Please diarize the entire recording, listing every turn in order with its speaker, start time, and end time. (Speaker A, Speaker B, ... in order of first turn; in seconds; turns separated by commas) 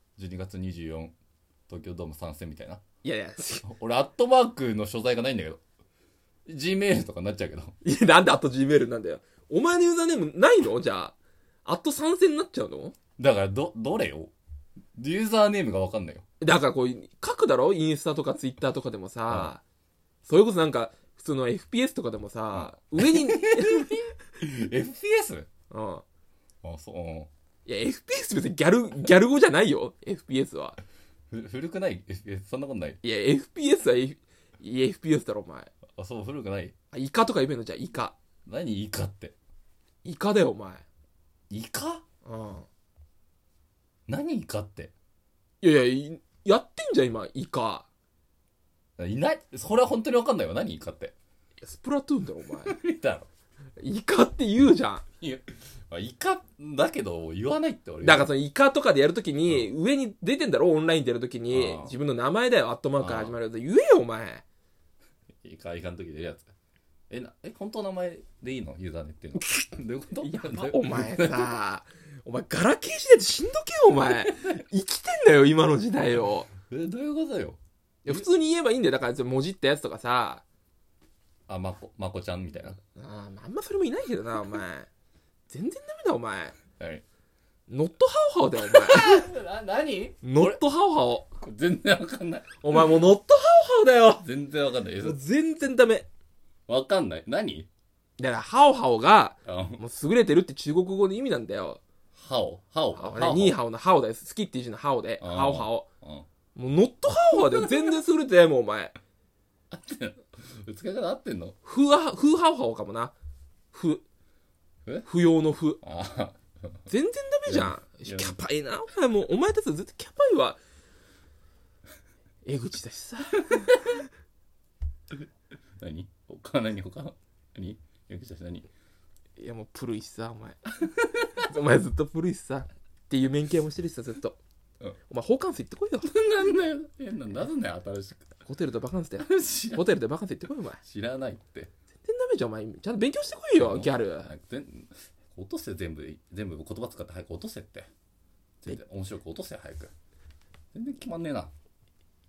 Speaker A: 0.2-1.1, Speaker A: 1.7-2.8, Speaker B: 3.0-3.6, Speaker A: 3.5-5.6, Speaker A: 6.5-7.8, Speaker B: 7.8-11.1, Speaker B: 11.7-12.9, Speaker A: 13.2-14.3, Speaker A: 14.9-16.2, Speaker B: 16.4-19.6, Speaker A: 19.3-19.5, Speaker B: 20.2-24.1, Speaker A: 22.5-25.5, Speaker B: 25.7-26.0, Speaker A: 26.6-27.3, Speaker B: 27.6-30.8, Speaker A: 31.3-33.0, Speaker B: 33.0-35.7, Speaker A: 35.9-36.7, Speaker B: 36.9-38.1, Speaker A: 38.5-39.3, Speaker B: 40.0-40.8, Speaker A: 41.5-42.0, Speaker B: 42.2-42.7, Speaker A: 44.1-44.9, Speaker B: 45.6-47.9, Speaker A: 49.0-51.1, Speaker B: 51.6-52.8, Speaker A: 52.6-53.3, Speaker B: 53.8-55.0, Speaker A: 55.2-58.3, Speaker B: 58.0-64.4, Speaker A: 61.5-61.9, Speaker A: 63.0-63.4, Speaker A: 65.4-66.5, Speaker A: 67.1-71.5, Speaker B: 70.2-76.5, Speaker A: 76.7-78.2, Speaker B: 78.0-80.4, Speaker A: 81.5-82.8, Speaker B: 83.0-84.9, Speaker B: 85.5-86.5, Speaker A: 86.8-87.0, Speaker B: 87.7-89.3, Speaker A: 88.7-90.6, Speaker B: 90.2-91.3, Speaker A: 91.4-92.9, Speaker B: 92.6-94.2, Speaker A: 94.2-95.2, Speaker B: 95.0-96.1, Speaker A: 96.7-97.7, Speaker B: 98.2-101.8, Speaker A: 99.5-99.8, Speaker A: 102.1-103.6, Speaker B: 102.9-105.8, Speaker A: 105.2-106.2, Speaker B: 106.5-108.9, Speaker A: 109.7-111.5, Speaker B: 111.6-113.1, Speaker B: 113.7-114.0, Speaker B: 115.0-115.8, Speaker A: 115.8-116.7, Speaker B: 116.9-120.6, Speaker A: 117.5-118.4, Speaker B: 122.4-123.7, Speaker A: 123.5-123.9, Speaker A: 125.8-128.7, Speaker B: 129.4-134.4, Speaker B: 135.1-136.1, Speaker A: 136.0-138.3, Speaker B: 138.4-140.8, Speaker A: 139.2-139.8, Speaker A: 140.8-141.7, Speaker B: 142.0-144.3, Speaker A: 143.6-147.9, Speaker A: 148.6-149.9, Speaker A: 150.7-151.5